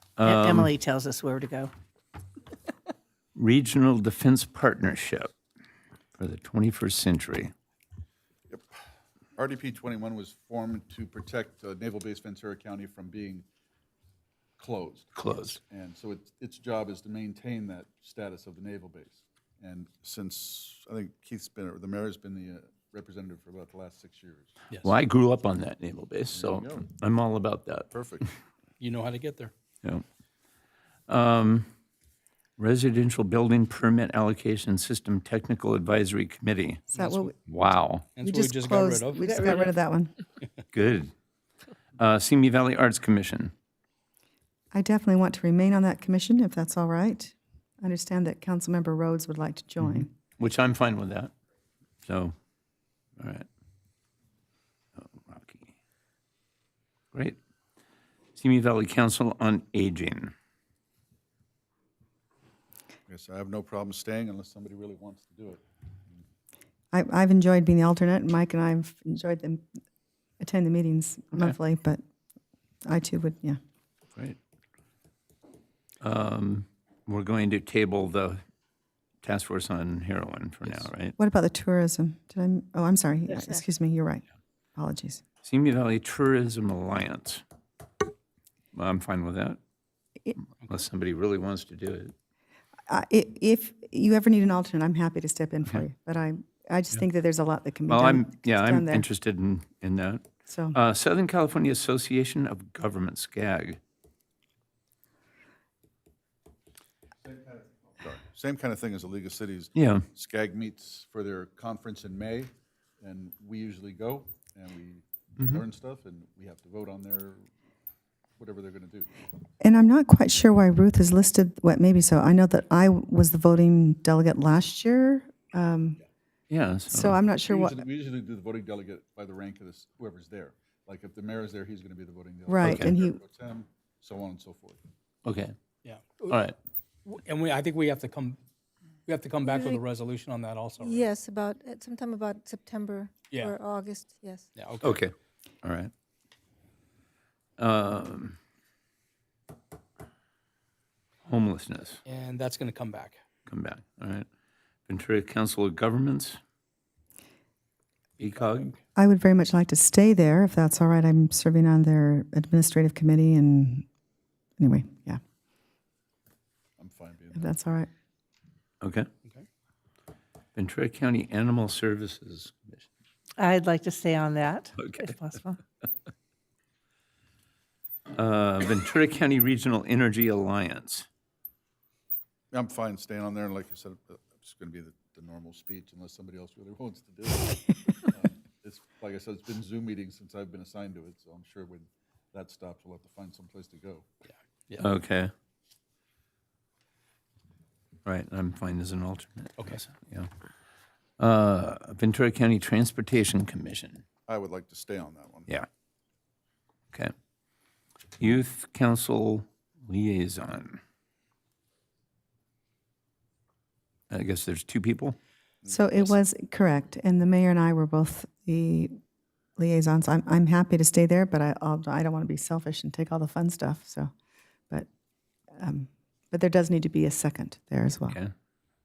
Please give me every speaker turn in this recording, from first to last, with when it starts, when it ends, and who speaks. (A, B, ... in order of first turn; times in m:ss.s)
0:00.2-0:00.7 A
0:00.2-0:01.7 B
0:03.3-0:05.3 A
0:06.2-0:07.5 A
0:08.5-0:08.7 C
0:09.4-0:13.4 C
0:14.6-0:24.5 C
0:15.1-0:15.6 A
0:24.8-0:27.9 A
0:26.3-0:26.8 C
0:27.9-0:28.2 C
0:28.8-0:29.5 D
0:31.1-0:31.7 A
0:32.6-0:36.9 A
0:36.9-0:37.3 E
0:37.0-0:37.2 D
0:37.4-0:38.1 A
0:38.2-0:39.7 D
0:38.2-0:40.1 E
0:40.7-0:41.1 A
0:42.0-0:43.5 A
0:44.7-0:50.1 E
0:49.8-0:51.3 A
0:52.0-0:52.3 A
0:53.2-0:53.5 A
0:55.0-0:55.7 A
0:57.1-0:57.4 A
0:58.3-1:00.3 A
1:03.1-1:05.6 C
1:06.9-1:09.6 E
1:10.4-1:12.0 E
1:12.8-1:13.6 E
1:16.0-1:18.4 A
1:19.2-1:21.2 A
1:21.2-1:24.2 E
1:24.8-1:25.2 E
1:25.4-1:27.4 A
1:28.7-1:29.6 A
1:30.4-1:32.1 A
1:32.9-1:39.0 E
1:37.9-1:43.8 A
1:40.5-1:40.8 E
1:47.2-1:57.5 C
1:49.7-1:50.0 A
1:58.4-1:59.1 C
1:59.6-2:06.0 E
2:06.5-2:07.2 A
2:06.9-2:07.8 E
2:07.4-2:14.8 C
2:12.5-2:13.2 E
2:12.6-2:12.9 A
2:15.2-2:15.5 A
2:15.8-2:16.3 D
2:16.2-2:16.6 A
2:17.0-2:18.4 D
2:19.1-2:21.0 D
2:19.4-2:19.8 F
2:20.8-2:24.5 F
2:23.3-2:23.5 D
2:24.5-2:25.0 D
2:24.8-2:25.9 A
2:27.6-2:28.4 A
2:31.2-2:32.0 A
2:32.0-2:33.2 D
2:33.5-2:34.2 A
2:34.9-2:36.4 A
2:38.2-2:38.7 D
2:38.2-2:38.7 A
2:39.0-2:43.8 E
2:44.6-2:45.2 E
2:46.8-2:47.5 C
2:47.3-2:47.9 E
2:48.8-2:49.1 A
2:50.5-2:52.9 A
2:53.4-2:55.6 B
2:54.8-2:55.1 A
2:58.1-3:01.1 A
3:02.5-3:14.1 C
3:14.8-3:15.3 A
3:18.0-3:20.3 A
3:21.2-3:24.0 A
3:24.3-3:25.5 C
3:28.2-3:30.8 A
3:34.1-3:35.2 A
3:35.6-3:36.0 C
3:35.7-3:38.9 E
3:39.6-3:44.1 E
3:45.6-3:48.2 E